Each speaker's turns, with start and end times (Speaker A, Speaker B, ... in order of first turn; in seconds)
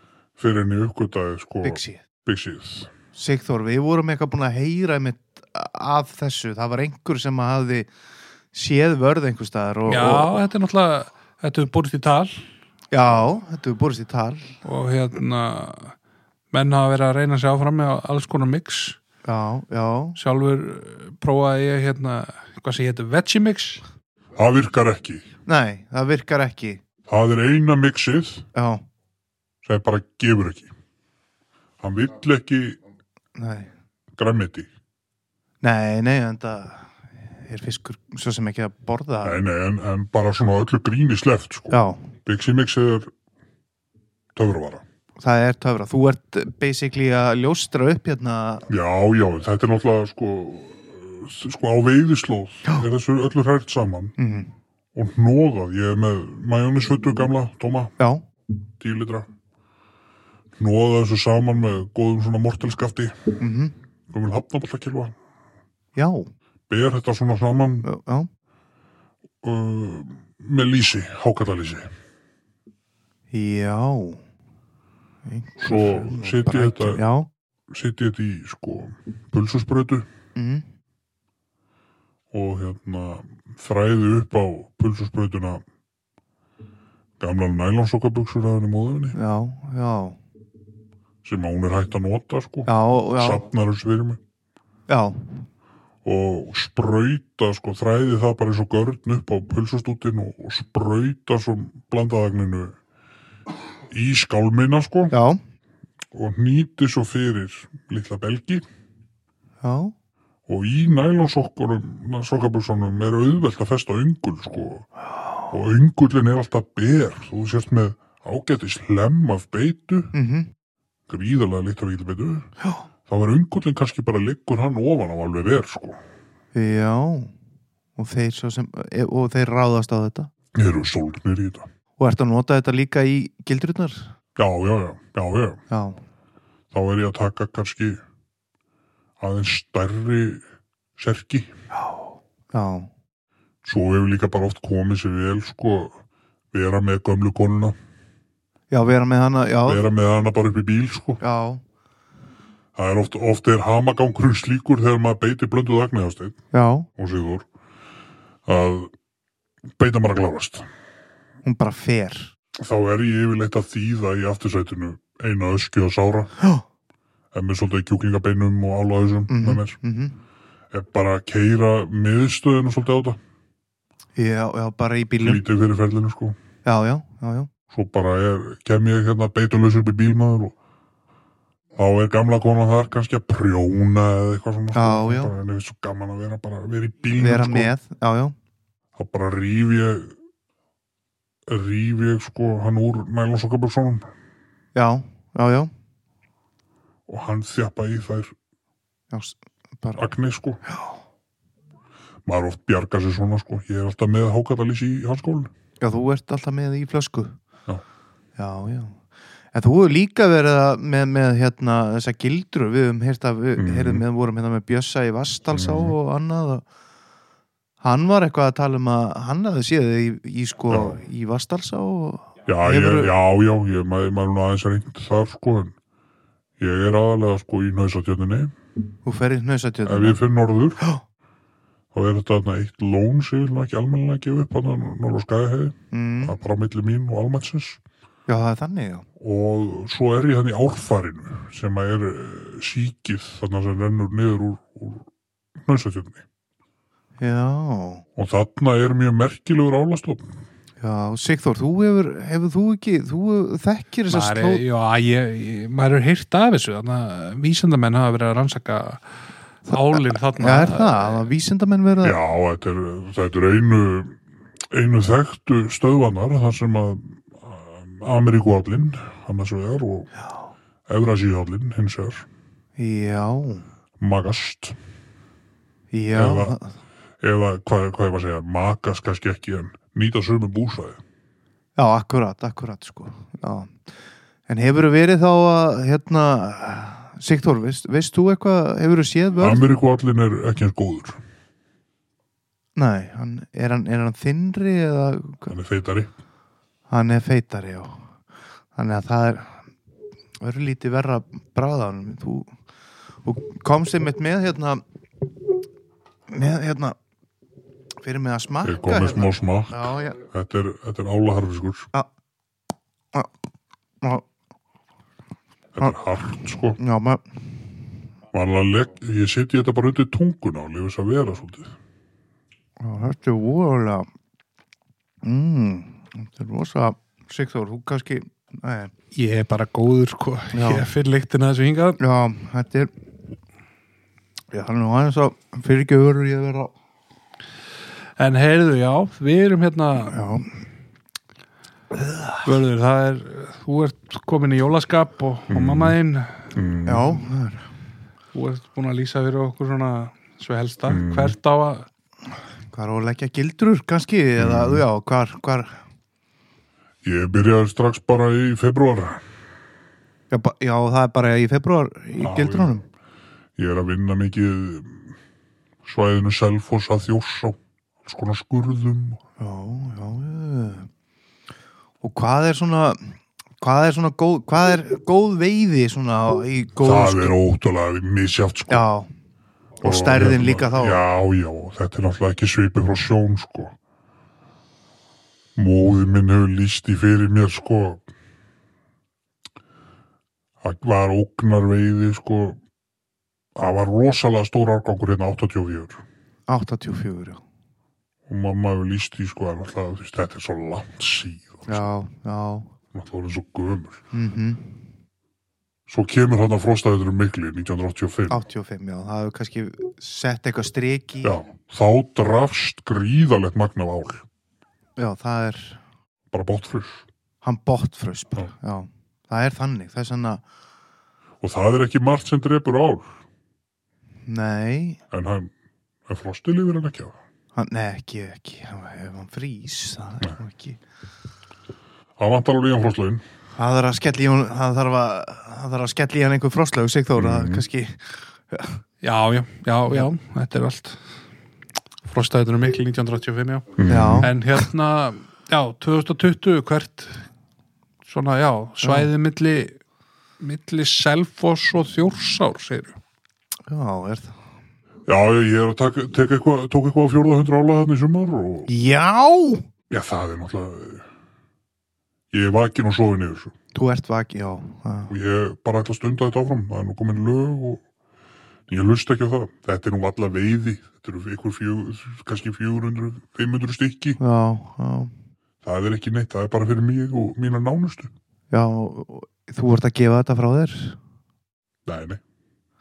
Speaker A: 0.4-2.9, 24.4-25.2, 27.1-28.4, 29.6-30.7, 31.8-32.8, 34.2-34.7, 39.2-43.1, 44.3-44.8, 48.7-54.1, 54.9-57.9, 58.8-59.3, 60.6-63.3, 64.1-65.2, 66.7-67.9, 69.4-71.9, 75.6-77.0, 77.7-80.1, 82.3-85.6, 87.2-89.2, 91.2-94.2, 96.0-102.8, 103.9-105.1, 106.1-108.6, 110.5-114.9, 115.5-120.1, 121.1-122.5, 123.1-126.0, 130.5-131.7, 134.3-135.6, 136.7-138.0, 139.2-140.4, 140.9-141.5, 143.6-146.0, 146.5-147.8, 149.7-151.2, 152.7-156.4, 156.9-157.4, 158.4-158.9, 159.8-160.7, 162.6-166.3, 167.3-169.8, 170.7-173.2, 175.2-176.4, 177.7-180.5, 181.7-187.7, 188.9-190.1, 191.5-194.1, 197.1-198.3, 200.0-200.6, 202.2-205.5, 213.6-214.0, 215.5-215.9, 220.7-221.0, 222.4-225.7, 226.6-228.5, 229.8-230.8, 231.9-237.8, 239.2-245.1, 245.6-246.2, 248.2-250.3, 262.0-264.2, 264.7-270.1, 270.9-272.2, 274.0-274.8, 276.1-276.5, 277.2-281.0, 289.4-291.2, 295.5-296.1, 308.6-311.9, 315.8-316.8, 318.3-321.7, 345.5-345.9, 346.5-347.2, 350.9-351.3, 354.4-354.8, 357.0-359.2, 362.2-362.7, 363.6-365.1, 365.8-369.2, 376.8-378.8, 379.8-383.8, 385.6-388.0, 390.6-392.6, 393.6-396.0, 398.3-401.8, 402.9-404.0, 405.9-408.4, 411.2-414.2, 416.3-417.1, 421.4-423.2, 425.1-425.5, 426.1-427.2, 432.2-433.2, 437.1-437.6, 443.8-444.3, 455.1-458.7, 459.9-461.1, 462.3-463.5, 465.1-467.8, 468.7-474.2, 475.6-478.1, 481.9-482.2
Speaker B: 1.6-2.0, 3.1-7.9, 8.5-10.4, 12.9-14.6, 19.2-20.2, 25.4-26.8, 28.5-28.8, 33.4-33.7, 35.6-39.4, 41.7-42.0, 45.2-48.6, 54.2-54.5, 58.0-58.2, 63.4-63.7, 66.0-66.3, 67.8-68.3, 73.3-74.2, 75.2-77.3, 80.3-80.6, 89.1-90.2, 92.7-93.4, 94.9-95.5, 105.1-105.4, 109.6-109.9, 120.1-120.5, 126.5-127.3, 128.0-130.3, 132.0-134.1, 135.7-136.0, 141.8-142.9, 148.7-149.8, 151.2-151.6, 156.5-156.9, 161.4-162.3, 169.3-170.2, 174.2-175.4, 176.6-177.5, 184.7-185.3, 187.2-188.3, 194.7-195.7, 199.1-200.1, 205.8-207.4, 208.4-208.9, 209.5-216.6, 217.8-223.1, 229.0-230.2, 235.9-236.3, 238.3-239.1, 247.2-248.0, 250.8-254.6, 259.7-262.2, 272.8-273.6, 275.9-276.7, 281.8-283.7, 284.5-289.6, 292.8-295.5, 296.9-298.0, 298.7-299.6, 300.4-302.5, 303.2-304.8, 306.3-306.9, 308.0-310.2, 316.8-317.2, 322.8-324.1, 325.2-328.9, 330.5-330.9, 332.0-332.9, 334.5-336.7, 340.1-340.5, 342.0-342.4, 346.9-347.7, 352.7-355.7, 360.3-362.8, 369.4-370.9, 372.0-377.4, 378.7-379.1, 379.8-381.0, 396.5-397.4, 401.7-402.7, 404.1-404.8, 408.3-411.3, 415.0-415.8, 417.4-420.4, 424.2-425.0, 427.5-430.8, 433.6-438.8, 443.9-444.4, 448.8-449.1, 453.7-454.3, 458.7-459.6, 463.7-465.1, 474.2-475.1, 478.5-481.0
Speaker C: 9.9-12.4, 14.6-15.9, 16.5-19.0, 20.2-23.8, 254.1-259.0, 259.7-261.3, 329.1-332.0, 338.2-340.2, 342.4-346.5, 348.3-351.9, 439.0-441.0, 442.0-447.2, 448.1-449.8, 450.4-453.0